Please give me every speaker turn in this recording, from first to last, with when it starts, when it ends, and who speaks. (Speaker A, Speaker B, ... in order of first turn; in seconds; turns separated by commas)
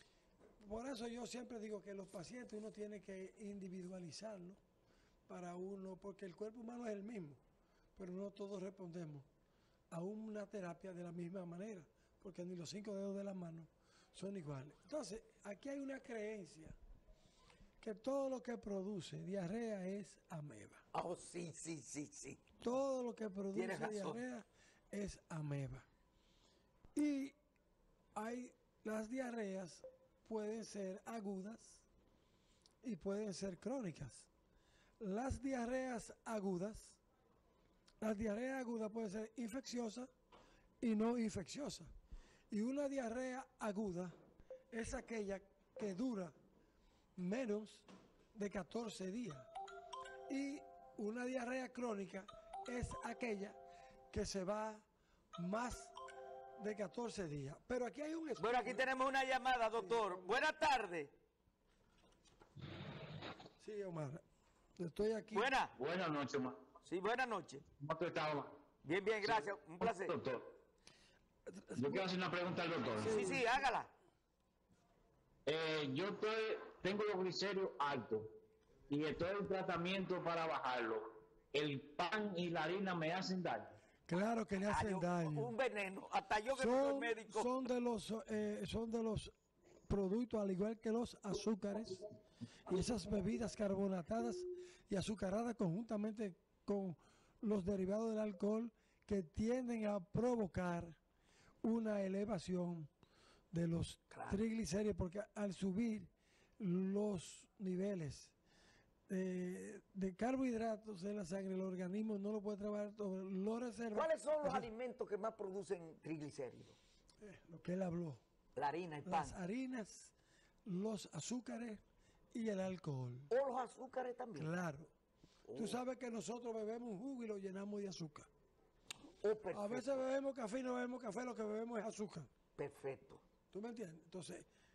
Speaker A: 0.6-4.6, Speaker A: 5.3-7.4, Speaker A: 8.0-9.3, Speaker A: 9.9-16.8, Speaker A: 17.8-20.9, Speaker B: 20.9-22.5, Speaker A: 22.6-25.9, Speaker B: 23.5-24.2, Speaker A: 26.9-27.4, Speaker A: 28.1-31.9, Speaker A: 32.8-34.3, Speaker A: 35.0-37.0, Speaker A: 38.0-40.1, Speaker A: 40.8-41.9, Speaker A: 42.5-44.2, Speaker A: 44.7-46.4, Speaker A: 47.2-49.5, Speaker A: 50.3-53.6, Speaker A: 54.1-54.9, Speaker A: 55.4-55.9, Speaker A: 56.6-58.9, Speaker B: 58.4-61.1, Speaker A: 59.8-60.3, Speaker A: 63.6-64.2, Speaker A: 64.8-65.5, Speaker B: 65.3-65.8, Speaker C: 65.7-66.6, Speaker B: 66.8-67.6, Speaker C: 67.8-68.6, Speaker B: 68.8-70.2, Speaker C: 69.2-70.5, Speaker A: 71.5-72.1, Speaker C: 71.8-73.2, Speaker A: 73.0-73.5, Speaker B: 73.1-73.9, Speaker C: 75.5-78.3, Speaker C: 78.9-83.7, Speaker A: 84.1-85.5, Speaker B: 84.7-87.5, Speaker A: 86.5-89.3, Speaker A: 89.9-92.1, Speaker A: 92.7-101.0, Speaker A: 101.6-102.9, Speaker A: 103.5-108.3, Speaker B: 104.1-104.4, Speaker A: 109.1-114.7, Speaker B: 113.9-116.8, Speaker A: 117.2-118.2, Speaker B: 118.6-119.4, Speaker A: 119.0-120.1, Speaker A: 120.7-121.8, Speaker A: 122.3-123.3, Speaker B: 123.3-124.5, Speaker A: 124.4-124.9, Speaker B: 125.5-125.8, Speaker A: 125.5-128.3, Speaker B: 129.2-130.1, Speaker A: 129.5-132.3, Speaker B: 132.6-133.2, Speaker A: 133.5-134.5